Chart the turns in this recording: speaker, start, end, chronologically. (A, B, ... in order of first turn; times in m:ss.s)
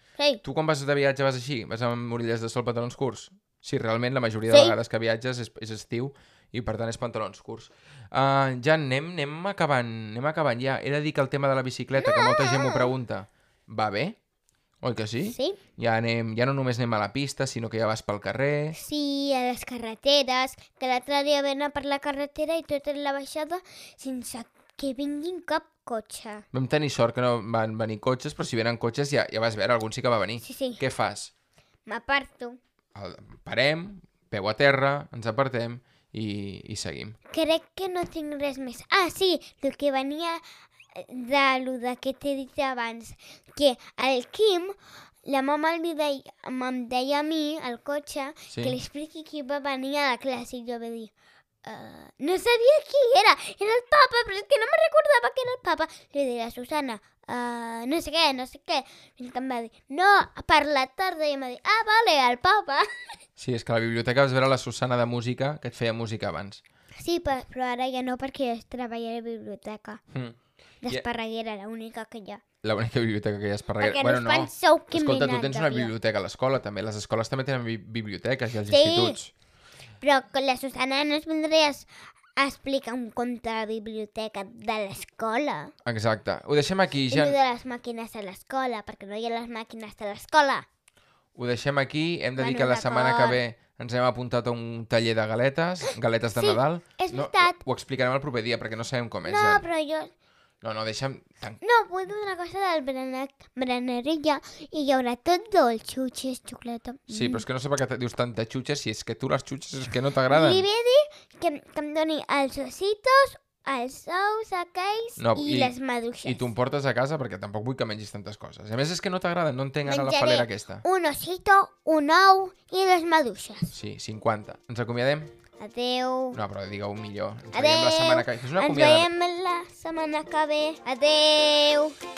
0:00.2-0:00.4 A
0:00.4-0:14.2 B
0:04.5-0:04.8 A
0:12.0-0:12.9 A
0:14.8-0:18.8 B
0:15.3-0:15.6 A
0:18.7-0:26.4 A
0:26.5-0:31.3 B
0:30.4-0:30.8 A
0:31.9-0:32.6 A
0:32.9-0:37.2 B
0:37.3-0:51.1 A
0:48.5-0:48.8 B
0:51.6-1:02.8 A
1:03.4-1:06.6 B
1:07.0-1:10.0 A
1:10.1-1:11.0 B
1:10.8-1:12.4 A
1:12.6-1:19.3 B
1:13.8-1:15.9 A
1:18.7-1:19.2 A
1:20.0-1:25.7 A
1:25.8-1:27.4 B
1:27.1-1:30.6 A
1:31.3-1:39.6 B
1:32.4-1:33.4 A
1:36.3-1:37.6 A
1:39.2-1:40.1 A
1:40.6-1:41.6 B
1:41.6-1:47.4 A
1:47.1-1:50.6 B
1:50.3-1:56.5 A
1:55.2-1:55.7 B
1:56.2-2:00.8 B
1:59.8-2:03.7 A
2:03.7-2:05.3 B
2:05.6-2:06.4 A
2:06.3-2:09.1 B
2:07.5-2:12.0 A